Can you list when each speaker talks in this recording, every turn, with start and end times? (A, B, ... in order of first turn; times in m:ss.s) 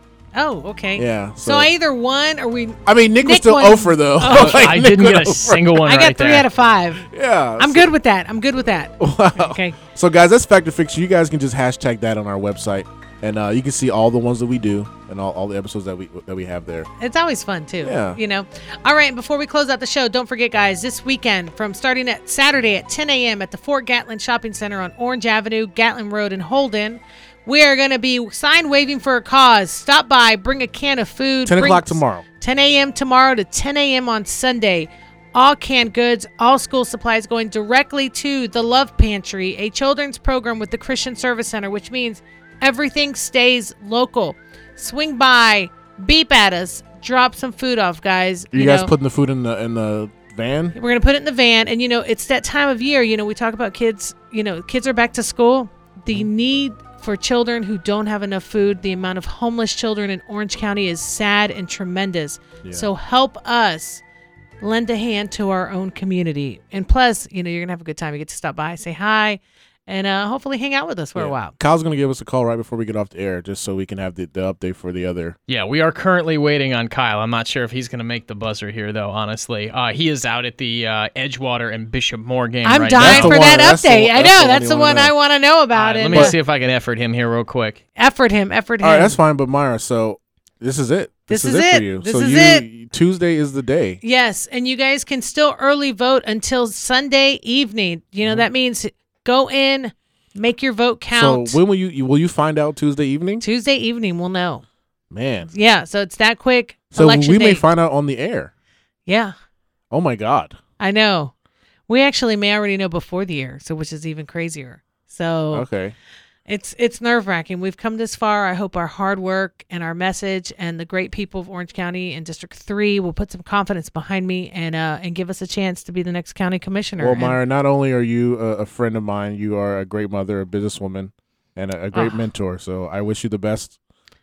0:00.3-0:04.8 A
0:01.0-0:01.7 B
0:02.8-0:05.8 B
0:04.2-0:06.5 C
0:05.7-0:07.0 A
0:07.0-0:07.9 B
0:07.6-0:09.8 A
0:09.0-0:16.9 B
0:17.0-0:48.9 A
0:17.8-0:18.2 B
0:31.4-0:32.2 B
0:48.5-0:50.7 B
0:50.7-1:04.0 A
1:02.6-1:02.9 B
1:04.6-1:11.5 A
1:11.2-1:15.4 B
1:15.5-1:23.4 C
1:22.6-1:26.4 A
1:23.0-1:25.1 B
1:25.7-1:27.8 C
1:26.1-1:26.4 B
1:28.0-1:29.2 A
1:28.8-1:34.0 B
1:31.3-1:32.6 A
1:34.0-1:41.6 A
1:41.1-1:43.4 B
1:43.4-1:44.6 A
1:45.1-1:45.5 B
1:45.5-1:47.6 A
1:46.9-1:48.5 B
1:49.0-1:49.3 A
1:49.9-1:50.6 B
1:50.8-1:51.3 A
1:51.9-1:55.7 A
1:55.5-1:55.9 B
1:56.5-2:07.4 A
2:07.0-2:13.8 B
2:11.9-2:12.2 A